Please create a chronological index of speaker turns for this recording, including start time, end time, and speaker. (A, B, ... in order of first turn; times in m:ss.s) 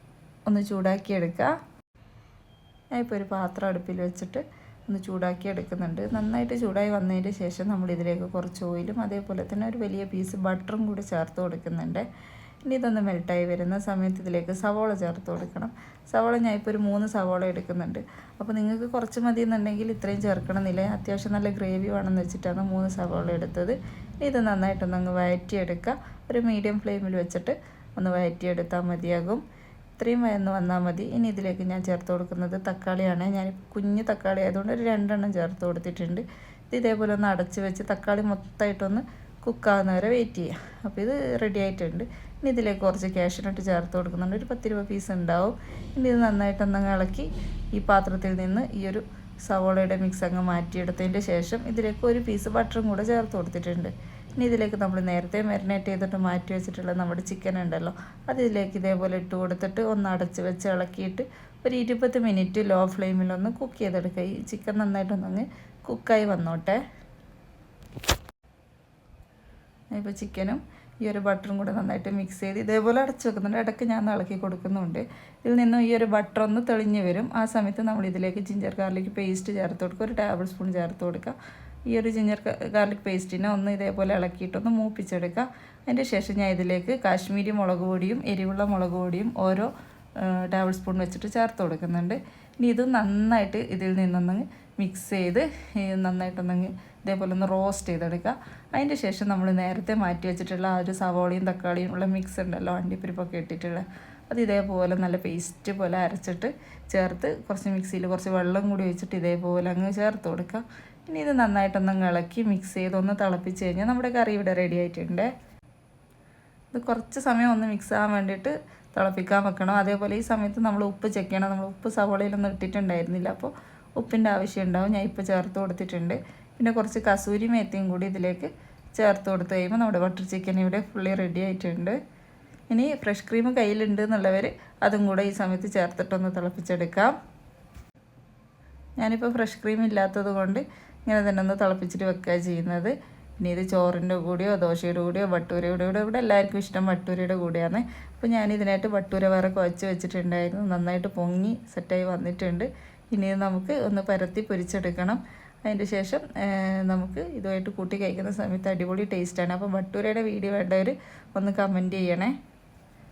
0:00.5-0:01.5 A
0:02.9-0:12.1 A
0:12.6-0:29.4 A
0:30.0-1:06.8 A
1:09.9-1:21.4 A
1:21.9-1:55.3 A
1:56.7-2:12.0 A
2:12.7-2:17.2 A
2:19.0-2:42.4 A